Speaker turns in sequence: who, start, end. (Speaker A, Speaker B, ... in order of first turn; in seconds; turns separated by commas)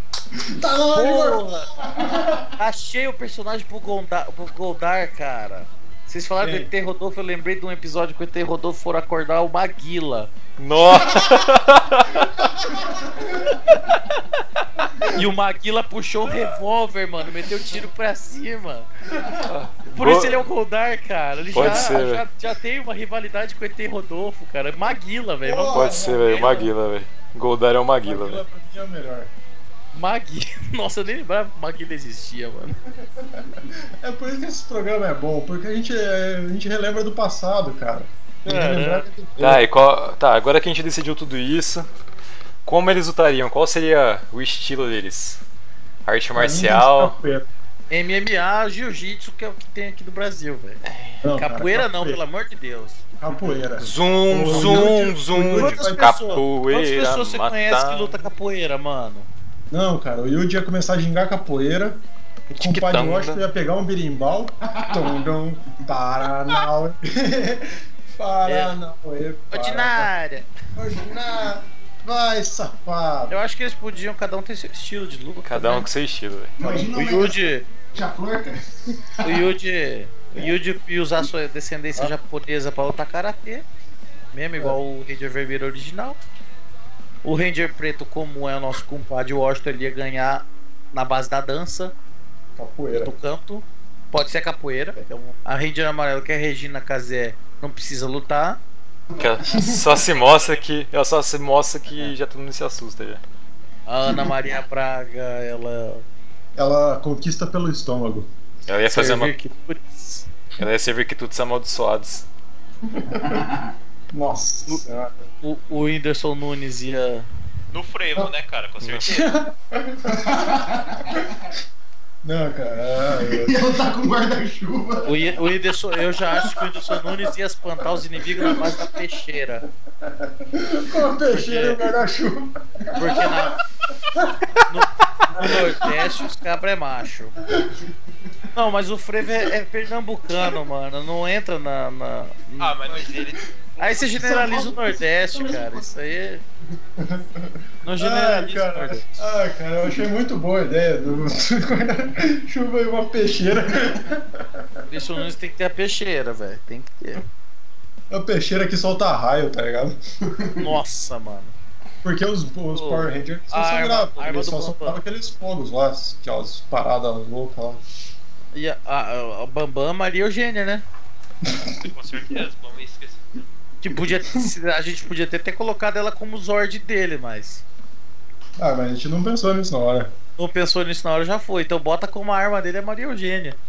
Speaker A: 0.5-2.1, Speaker B: 0.9-1.7, Speaker C: 1.9-2.5, Speaker B: 2.6-10.3, Speaker A: 6.4-6.7, Speaker D: 10.6-12.4, Speaker A: 13.0-13.3, Speaker A: 15.0-15.2, Speaker B: 15.0-18.9, Speaker D: 19.3-20.5, Speaker B: 19.9-26.7, Speaker D: 21.5-22.2, Speaker A: 25.4-26.7, Speaker D: 25.7-28.4, Speaker A: 28.0-29.3, Speaker B: 29.9-32.8, Speaker A: 33.3-39.6, Speaker B: 38.5-39.1, Speaker D: 39.4-41.9, Speaker D: 42.6-45.4, Speaker D: 46.0-47.1, Speaker A: 46.3-47.5, Speaker B: 47.9-53.0, Speaker A: 51.2-52.2, Speaker A: 53.2-56.4, Speaker D: 53.8-58.2, Speaker B: 54.4-54.9, Speaker B: 55.5-59.3, Speaker A: 59.7-70.1, Speaker D: 62.6-63.4, Speaker C: 64.7-65.1, Speaker B: 68.5-68.8, Speaker B: 69.5-70.5, Speaker A: 70.8-73.4, Speaker B: 73.3-75.9, Speaker D: 75.4-76.5, Speaker C: 76.6-79.5, Speaker A: 76.6-76.9, Speaker B: 76.9-77.7, Speaker B: 79.2-83.6, Speaker B: 84.3-86.2, Speaker B: 87.2-91.9, Speaker A: 92.5-93.1, Speaker B: 92.9-98.6, Speaker C: 99.1-99.8, Speaker D: 99.2-103.2, Speaker E: 100.0-100.6, Speaker B: 103.9-106.0, Speaker A: 106.5-108.3, Speaker D: 108.7-109.3, Speaker B: 108.9-110.3, Speaker D: 110.6-112.2, Speaker A: 113.0-113.4, Speaker C: 113.2-113.7, Speaker A: 114.1-115.3, Speaker B: 115.4-117.3, Speaker E: 117.7-119.4, Speaker D: 118.8-119.1, Speaker A: 119.1-120.6, Speaker C: 120.1-121.3, Speaker A: 122.2-123.5, Speaker C: 123.2-125.2, Speaker B: 125.0-129.6, Speaker A: 126.4-127.2, Speaker A: 128.2-128.9, Speaker A: 130.1-133.6, Speaker B: 131.3-131.9, Speaker B: 132.9-133.6, Speaker B: 134.7-137.4, Speaker A: 135.4-135.8, Speaker B: 138.5-143.0, Speaker E: 142.6-144.0, Speaker B: 143.8-146.4, Speaker C: 144.1-145.9, Speaker A: 147.0-154.6, Speaker B: 147.8-149.2, Speaker B: 154.9-157.2, Speaker A: 158.1-160.0, Speaker C: 160.3-160.7, Speaker B: 160.6-161.5, Speaker A: 162.0-167.8, Speaker B: 162.7-165.0, Speaker B: 168.5-170.8, Speaker A: 171.5-171.8, Speaker E: 171.6-173.2, Speaker B: 173.8-177.6, Speaker A: 178.6-180.1, Speaker B: 180.4-183.6